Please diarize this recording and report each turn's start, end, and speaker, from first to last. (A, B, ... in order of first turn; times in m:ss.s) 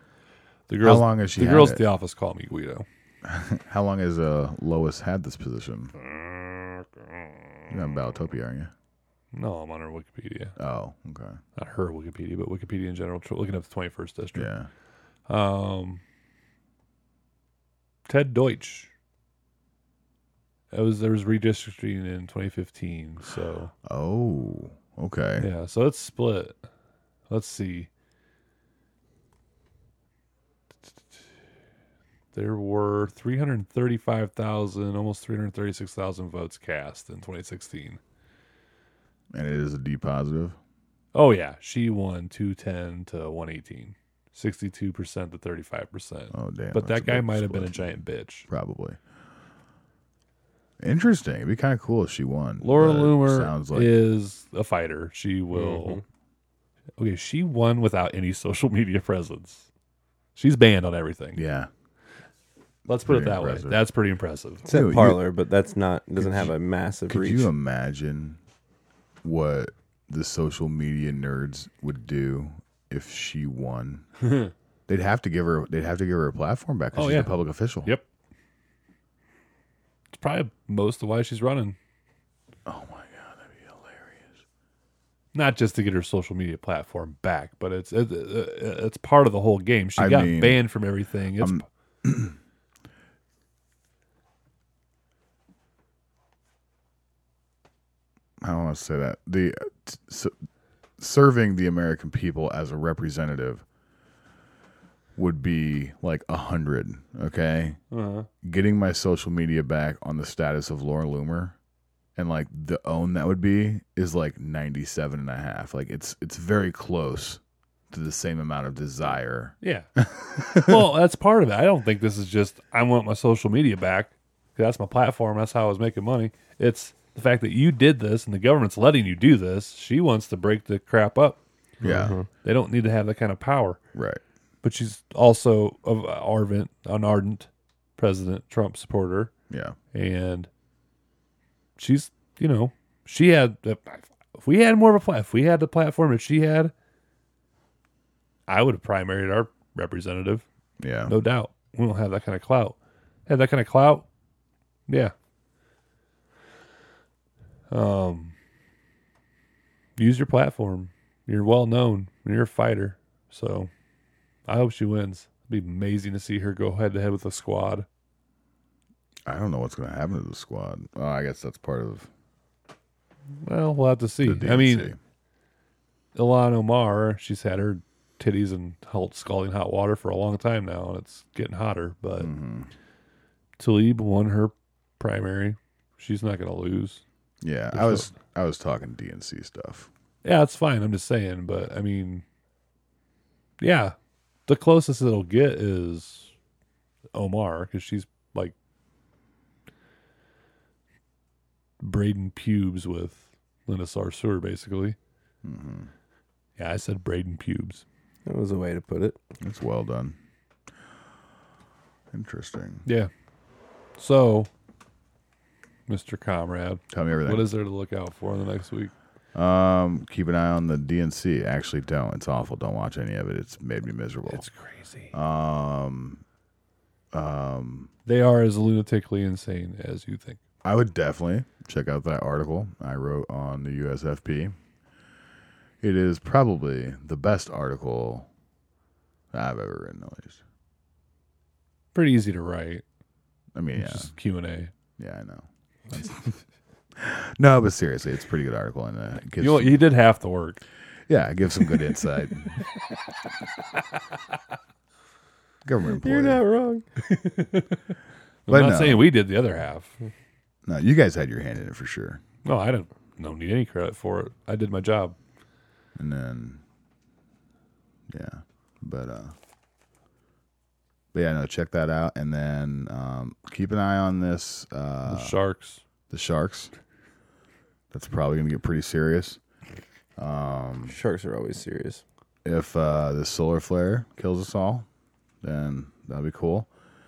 0:00.7-0:02.9 A
0:00.8-0:01.8 B
0:03.2-0:05.9 B
0:06.0-0:07.7 A
0:07.7-0:08.7 B
0:09.3-0:10.6 A
0:10.6-0:11.4 B
0:11.6-0:14.5 A
0:14.4-0:14.7 B
0:15.3-0:16.0 A
0:18.1-0:18.9 A
0:20.7-0:23.7 A
0:23.8-0:25.5 B
0:25.4-0:26.6 A
0:27.3-0:27.9 A
0:32.3-0:38.0 A
0:39.3-0:40.6 B
0:41.1-0:48.5 A
0:46.3-0:47.8 B
0:48.5-0:49.0 B
0:50.8-0:53.9 B
0:52.6-0:56.0 A
0:55.5-0:56.0 C
0:57.0-0:59.7 A
1:00.4-1:01.4 A
1:01.4-1:01.7 B
1:02.9-1:04.6 A
1:03.0-1:03.8 B
1:04.7-1:07.5 C
1:04.7-1:05.2 B
1:07.1-1:08.4 B
1:09.2-1:14.1 B
1:14.9-1:17.9 B
1:17.0-1:18.0 A
1:20.1-1:21.8 A
1:22.7-1:24.3 B
1:25.3-1:31.6 A
1:30.0-1:30.6 B
1:31.4-1:32.4 B
1:38.4-1:40.3 B
1:41.0-1:43.6 B
1:45.2-1:47.8 B
1:47.9-1:48.3 A
1:48.4-1:51.6 B
1:52.2-2:00.9 B
1:59.6-2:11.4 A
2:11.8-2:12.2 B
2:11.8-2:12.3 C
2:12.3-2:13.8 A
2:13.9-2:14.2 B
2:14.6-2:19.3 A
2:19.5-2:19.8 B
2:19.9-2:20.5 A
2:21.8-2:26.7 A
2:28.5-2:30.4 A
2:30.8-2:31.1 B
2:31.1-2:32.8 A
2:33.3-2:34.1 A
2:34.9-2:35.1 A
2:37.7-2:38.3 A
2:40.0-2:43.7 A
2:44.5-2:47.9 A
2:49.3-2:52.1 B
2:53.4-2:54.9 A
2:54.2-2:55.0 B
2:56.2-3:02.3 A
3:02.2-3:02.7 B
3:03.6-3:07.0 A
3:07.4-3:09.9 B
3:07.7-3:08.1 A
3:10.2-3:12.2 A
3:13.6-3:14.0 A
3:14.5-3:16.3 A
3:17.1-3:18.5 A
3:21.8-3:25.0 A
3:25.4-3:25.9 B
3:26.6-3:27.8 A
3:28.3-3:29.2 C
3:29.4-3:30.2 B
3:32.1-3:32.8 B
3:32.8-3:33.1 A
3:34.0-3:34.5 A
3:35.9-3:38.9 A
3:36.9-3:37.4 B
3:39.3-3:44.4 B
3:44.3-3:45.1 A
3:45.1-3:46.2 B
3:47.1-3:47.9 B
3:48.1-3:50.4 A
3:50.6-3:54.5 B
3:55.8-3:58.3 B
3:59.3-4:00.4 B
4:01.9-4:02.8 A
4:03.6-4:04.1 B
4:03.8-4:04.7 A
4:05.0-4:06.4 B
4:07.0-4:09.8 B
4:09.4-4:10.6 A
4:11.1-4:12.6 B
4:15.6-4:16.4 B
4:16.0-4:16.8 C
4:17.0-4:17.8 A
4:18.5-4:19.9 A
4:18.5-4:19.1 B
4:20.7-4:22.2 B
4:22.4-4:25.2 A
4:26.0-4:26.6 B
4:28.1-4:29.3 B
4:31.1-4:35.4 B
4:35.1-4:35.8 A
4:36.1-4:36.7 B
4:37.9-4:39.4 B
4:40.2-4:41.0 B
4:40.8-4:42.0 C
4:42.4-4:44.9 B
4:45.4-4:46.7 B